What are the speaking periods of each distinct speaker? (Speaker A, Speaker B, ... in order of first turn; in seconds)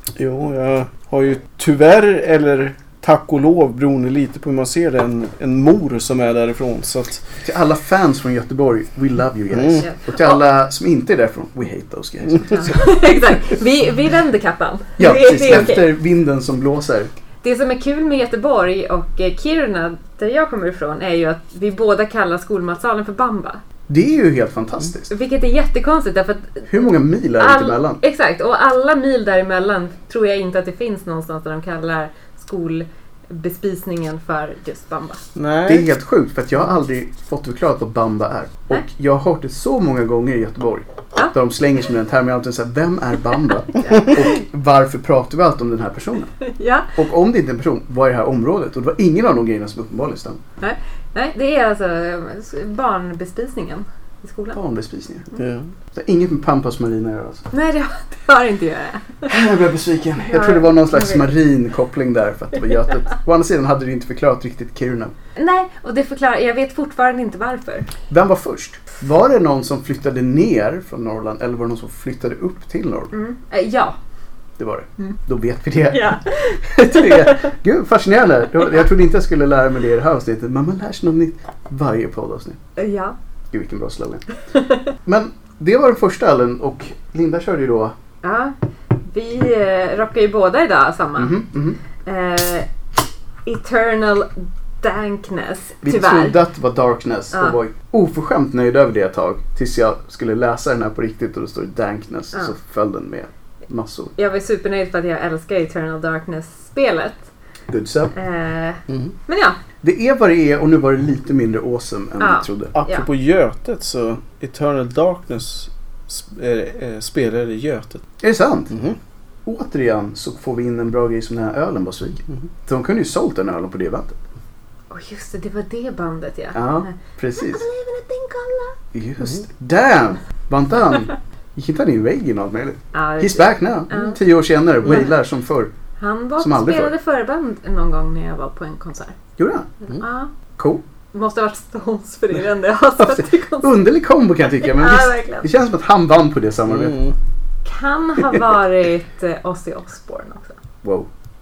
Speaker A: 0.1-7.3, 9.5-9.9, 35.3-35.9, 55.4-55.7, 112.7-118.0, 118.7-119.0, 146.7-147.1
Speaker B: 7.4-12.8, 15.0-17.1, 23.9-25.1, 26.7-28.0, 35.7-46.3, 47.0-50.4, 54.5-55.3, 55.9-57.5, 59.2-65.1, 68.1-73.1, 74.6-82.6, 83.5-84.2, 85.0-87.9, 91.2-91.8, 95.8-104.1, 107.7-108.1, 109.8-112.7, 118.2-118.7, 119.4-124.2, 126.5-127.6, 128.9-135.7, 136.4-136.9, 139.4-139.7, 143.0-147.0, 148.2-148.4, 150.8-151.1
Speaker C: 9.8-10.4, 12.4-15.8, 17.4-23.6, 25.1-35.2, 43.7-44.3, 46.5-47.0, 50.6-54.6, 57.5-59.3, 60.2-61.3, 65.4-67.9, 73.1-74.0, 75.9-77.5, 82.8-83.1, 84.5-84.9, 88.2-88.5, 89.1-91.4, 92.0-92.7, 93.4-96.3, 104.2-107.2, 108.1-109.6, 112.2-113.0, 124.9-128.7, 132.9-134.2, 134.8-135.1, 136.0-139.1, 139.9-140.3, 141.1-143.8, 144.5-145.5, 147.6-150.6